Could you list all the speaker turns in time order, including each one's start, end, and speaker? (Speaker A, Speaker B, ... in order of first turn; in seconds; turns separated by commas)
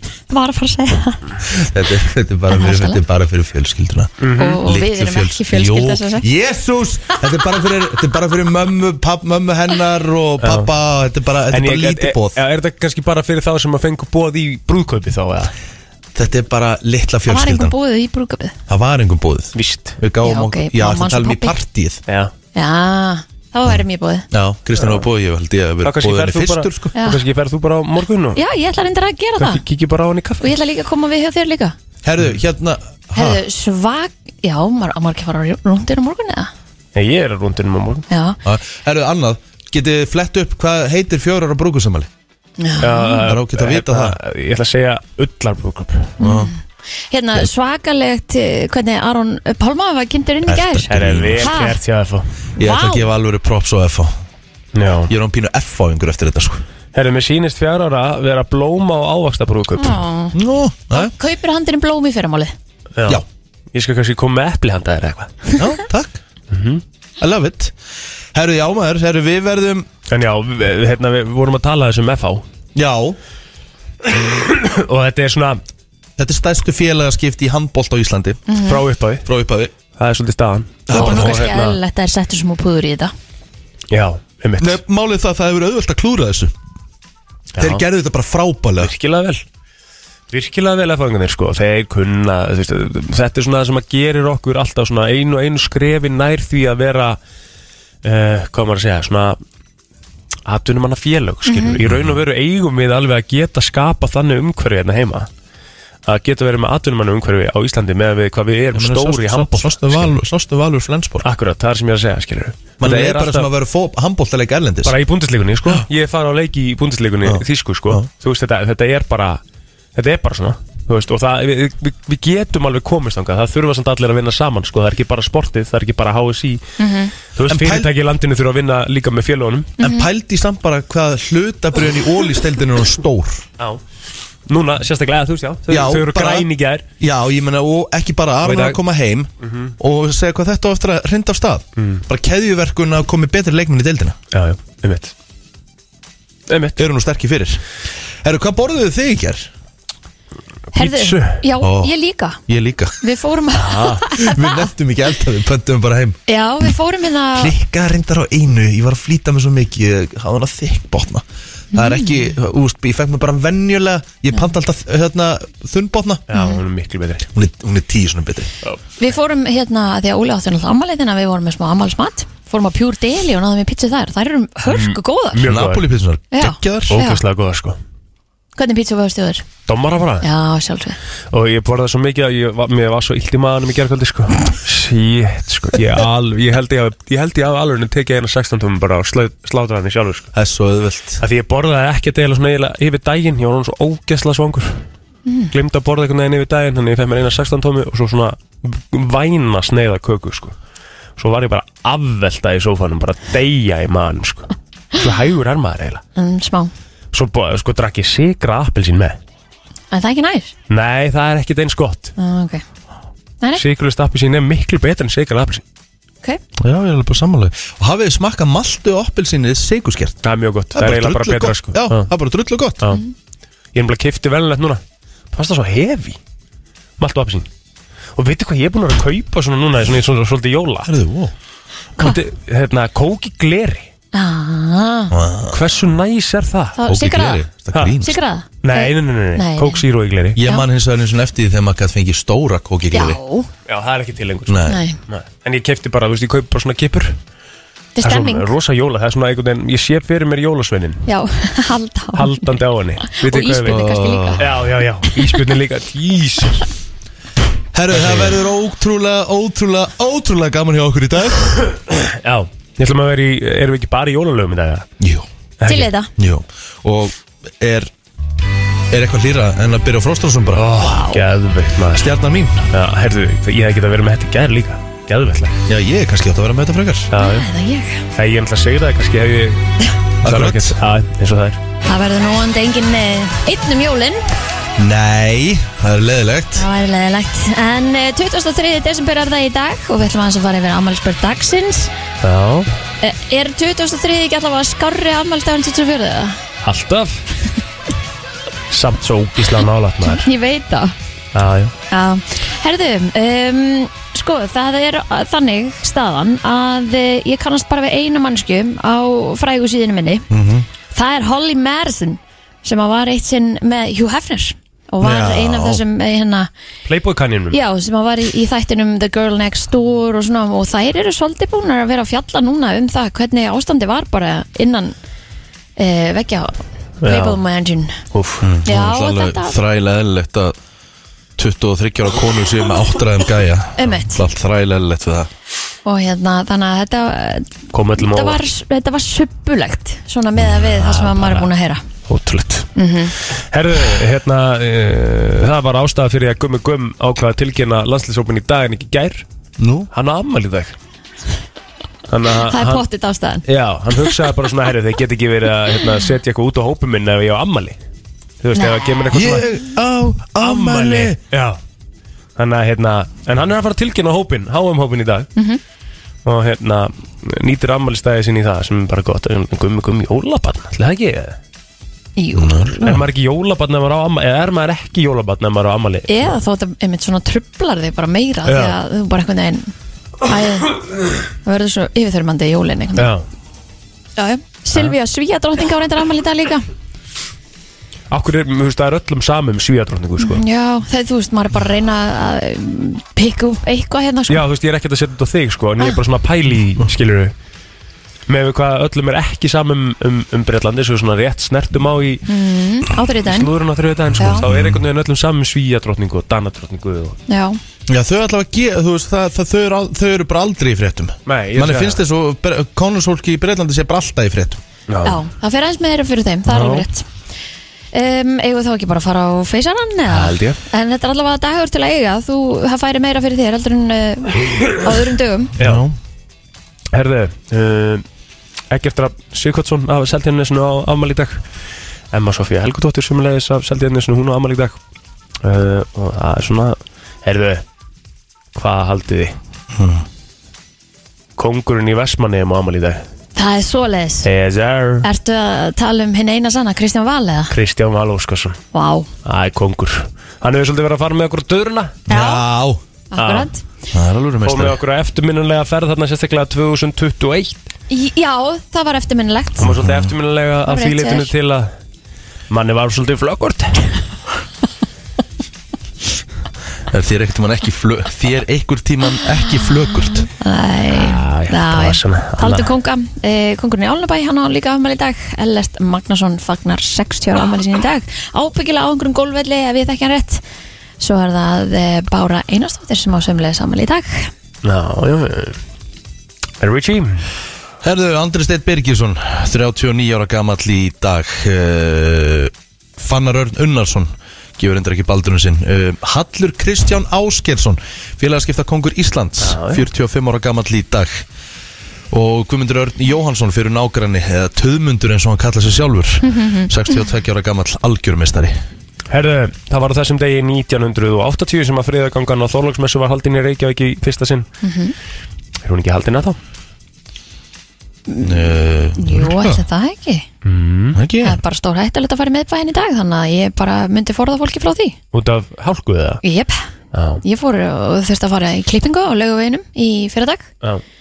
Speaker A: 0.3-1.3, Speaker B: 1.5-12.4, Speaker A: 2.5-3.0, Speaker C: 4.2-4.7, Speaker A: 4.4-6.3, Speaker C: 10.4-10.7, Speaker C: 11.5-15.5, Speaker B: 16.1-17.8, Speaker A: 17.3-18.6, Speaker B: 18.7-22.0, Speaker C: 19.6-20.0, Speaker A: 20.2-21.6, Speaker C: 22.1-22.3, Speaker A: 22.5-24.3, Speaker B: 24.3-26.9, Speaker C: 25.8-28.4, Speaker A: 26.9-27.2, Speaker A: 28.4-29.6, Speaker C: 29.4-30.5, Speaker A: 30.4-31.8, Speaker B: 32.0-33.4, Speaker A: 33.1-36.5, Speaker C: 37.0-38.0, Speaker A: 38.1-38.4, Speaker B: 38.5-42.1, Speaker A: 42.6-43.2, Speaker C: 42.8-46.2, Speaker B: 43.2-44.2, Speaker B: 46.2-46.5, Speaker A: 46.2-46.6, Speaker A: 47.1-51.8, Speaker B: 50.5-51.6, Speaker C: 50.9-52.3, Speaker B: 52.6-54.2, Speaker A: 52.6-53.1, Speaker C: 54.8-55.1, Speaker B: 55.1-56.6, Speaker C: 56.9-60.0, Speaker A: 59.8-60.4, Speaker B: 60.3-61.1, Speaker A: 60.9-62.5, Speaker C: 63.0-63.2, Speaker C: 63.7-65.4, Speaker B: 65.6-66.2, Speaker C: 66.5-66.8, Speaker B: 67.2-67.8, Speaker B: 68.3-69.9, Speaker C: 70.1-72.4, Speaker B: 72.8-73.2, Speaker C: 74.1-75.6, Speaker B: 76.2-78.4, Speaker A: 78.5-78.8, Speaker C: 78.7-79.2, Speaker B: 79.2-79.7, Speaker C: 80.0-81.8, Speaker B: 80.9-81.5, Speaker A: 80.9-83.1, Speaker C: 83.9-84.8, Speaker B: 84.6-86.5, Speaker C: 87.6-87.8, Speaker B: 87.6-88.9, Speaker C: 88.8-89.4, Speaker C: 90.3-97.2, Speaker C: 98.0-99.4, Speaker C: 100.5-105.3, Speaker A: 101.5-101.8, Speaker B: 101.8-102.2, Speaker C: 106.1-110.1, Speaker B: 108.7-111.3, Speaker C: 111.2-113.5, Speaker B: 112.8-115.0, Speaker C: 114.8-119.4, Speaker B: 117.2-118.0, Speaker C: 120.0-126.6, Speaker A: 126.8-127.1, Speaker C: 127.3-129.8, Speaker B: 127.5-127.9, Speaker A: 129.8-130.1, Speaker B: 129.8-133.4, Speaker C: 134.5-136.9, Speaker B: 135.7-136.5, Speaker B: 137.0-144.2, Speaker C: 138.4-138.8, Speaker C: 139.4-139.7, Speaker C: 141.8-142.0, Speaker C: 144.3-145.1, Speaker C: 146.5-146.8, Speaker B: 146.8-147.6, Speaker B: 148.2-149.5, Speaker C: 150.8-151.4, Speaker A: 150.8-152.4, Speaker B: 151.6-151.9, Speaker B: 152.5-153.0, Speaker A: 153.0-154.7, Speaker C: 153.7-154.0, Speaker B: 154.0-156.2, Speaker A: 156.3-157.6, Speaker B: 157.4-166.2, Speaker A: 161.7-162.3, Speaker C: 166.3-167.3, Speaker A: 166.3-166.6, Speaker B: 167.3-168.5, Speaker A: 169.0-175.4, Speaker C: 174.7-175.8, Speaker B: 175.4-177.0, Speaker A: 176.3-177.2, Speaker C: 176.9-177.8, Speaker A: 178.6-179.5, Speaker C: 179.7-180.3, Speaker A: 180.2-181.0, Speaker C: 181.3-190.3, Speaker B: 190.3-191.2, Speaker C: 191.2-194.8, Speaker A: 195.3-195.5, Speaker C: 195.5-200.6, Speaker C: 201.2-206.0, Speaker A: 206.2-206.7, Speaker C: 207.1-209.2, Speaker A: 209.9-210.5, Speaker C: 210.7-212.1, Speaker A: 212.2-212.6, Speaker C: 213.6-215.6, Speaker B: 216.6-220.2, Speaker C: 220.2-222.1, Speaker B: 220.7-222.8, Speaker C: 223.7-224.8, Speaker C: 225.3-226.2, Speaker C: 227.0-227.5, Speaker C: 228.2-230.9, Speaker B: 230.8-231.3, Speaker C: 232.0-233.9, Speaker A: 234.1-235.1, Speaker B: 235.1-235.6, Speaker C: 235.5-236.8, Speaker A: 236.8-237.4, Speaker B: 236.9-238.2, Speaker A: 238.0-239.8, Speaker C: 238.6-240.4, Speaker B: 240.4-243.2, Speaker A: 242.9-243.5, Speaker C: 243.7-247.2, Speaker B: 244.5-244.8, Speaker A: 244.7-245.0, Speaker A: 248.0-248.5, Speaker C: 248.0-251.0, Speaker A: 251.1-252.5, Speaker C: 252.2-256.7, Speaker A: 253.1-254.4, Speaker B: 253.7-254.5, Speaker B: 257.7-261.6, Speaker C: 257.9-258.4, Speaker C: 261.9-264.9, Speaker B: 265.0-265.3, Speaker C: 265.6-265.9, Speaker A: 265.7-266.1, Speaker B: 266.2-267.9, Speaker B: 268.9-270.7, Speaker C: 270.6-272.1, Speaker A: 270.8-271.2, Speaker B: 271.9-272.7, Speaker C: 272.7-275.6, Speaker B: 275.7-277.1, Speaker C: 277.1-277.5, Speaker A: 277.2-278.1, Speaker C: 278.2-281.6, Speaker B: 280.2-280.8, Speaker A: 281.9-284.2, Speaker B: 284.8-286.7, Speaker A: 286.6-291.9, Speaker C: 292.2-292.7, Speaker A: 293.0-296.4, Speaker C: 296.6-297.2, Speaker C: 298.7-300.3, Speaker A: 300.1-300.9, Speaker C: 301.3-301.7, Speaker A: 301.9-310.3, Speaker B: 310.3-310.7, Speaker A: 310.9-316.5, Speaker B: 315.0-315.8, Speaker C: 316.9-317.6, Speaker A: 317.5-324.9, Speaker A: 325.8-328.0, Speaker C: 327.0-327.4, Speaker C: 328.1-328.5, Speaker B: 328.4-330.6, Speaker A: 328.7-329.6, Speaker B: 331.4-335.3, Speaker A: 333.8-334.2, Speaker A: 335.9-341.8, Speaker C: 337.7-338.4, Speaker C: 340.5-341.5, Speaker C: 342.1-342.7, Speaker A: 342.8-343.1, Speaker C: 343.5-349.2, Speaker B: 349.6-349.9, Speaker C: 349.9-350.8, Speaker C: 352.1-352.9, Speaker A: 352.5-353.4, Speaker C: 353.5-357.8, Speaker C: 358.4-359.5, Speaker A: 358.6-358.9, Speaker B: 359.1-361.2, Speaker C: 360.4-361.6, Speaker C: 362.4-365.3, Speaker C: 366.2-371.4, Speaker A: 372.2-372.9, Speaker B: 372.4-373.0, Speaker C: 372.8-376.2, Speaker A: 376.1-379.7, Speaker C: 378.5-378.8, Speaker A: 380.2-380.8, Speaker A: 381.4-383.1, Speaker C: 383.0-383.2, Speaker A: 384.2-386.6, Speaker C: 388.1-390.4, Speaker A: 390.2-394.4, Speaker C: 394.3-397.3, Speaker C: 398.3-402.2, Speaker A: 402.3-403.5, Speaker C: 403.2-407.2, Speaker A: 404.2-404.4, Speaker B: 404.2-404.8, Speaker A: 407.3-407.6, Speaker B: 407.9-414.6, Speaker C: 411.3-412.0, Speaker C: 414.9-415.2, Speaker A: 415.1-417.1, Speaker C: 416.5-416.9, Speaker A: 417.9-425.5, Speaker C: 420.1-420.6, Speaker C: 425.6-425.9, Speaker B: 425.6-425.9, Speaker C: 426.9-428.0, Speaker C: 428.7-431.4, Speaker C: 432.1-434.8, Speaker C: 435.4-437.6, Speaker C: 438.6-439.4, Speaker B: 439.7-440.1, Speaker C: 441.4-443.0, Speaker A: 443.4-444.3, Speaker C: 444.2-445.1, Speaker A: 445.0-447.5, Speaker C: 447.5-448.6, Speaker A: 448.7-449.1, Speaker C: 449.2-452.0, Speaker B: 452.1-452.8, Speaker A: 452.1-452.5, Speaker A: 453.1-453.6, Speaker C: 453.2-453.5, Speaker B: 453.9-454.8, Speaker C: 454.4-457.7, Speaker A: 457.9-459.7, Speaker C: 459.6-461.7, Speaker B: 459.6-460.1, Speaker A: 460.7-461.3, Speaker C: 462.5-464.0, Speaker B: 466.9-470.3, Speaker A: 470.2-480.4, Speaker C: 470.9-472.7, Speaker A: 481.0-484.3, Speaker C: 484.6-485.6, Speaker C: 486.6-487.3, Speaker B: 487.8-501.2, Speaker C: 499.4-499.8, Speaker B: 502.1-508.6, Speaker A: 506.2-507.1, Speaker C: 509.1-514.5, Speaker A: 514.6-514.9, Speaker C: 515.6-516.4, Speaker A: 518.1-520.3, Speaker B: 518.2-519.6, Speaker C: 520.4-521.0, Speaker B: 521.0-521.4, Speaker A: 521.2-525.0, Speaker C: 525.1-526.2, Speaker A: 526.2-526.7, Speaker C: 526.9-527.2, Speaker A: 527.2-530.5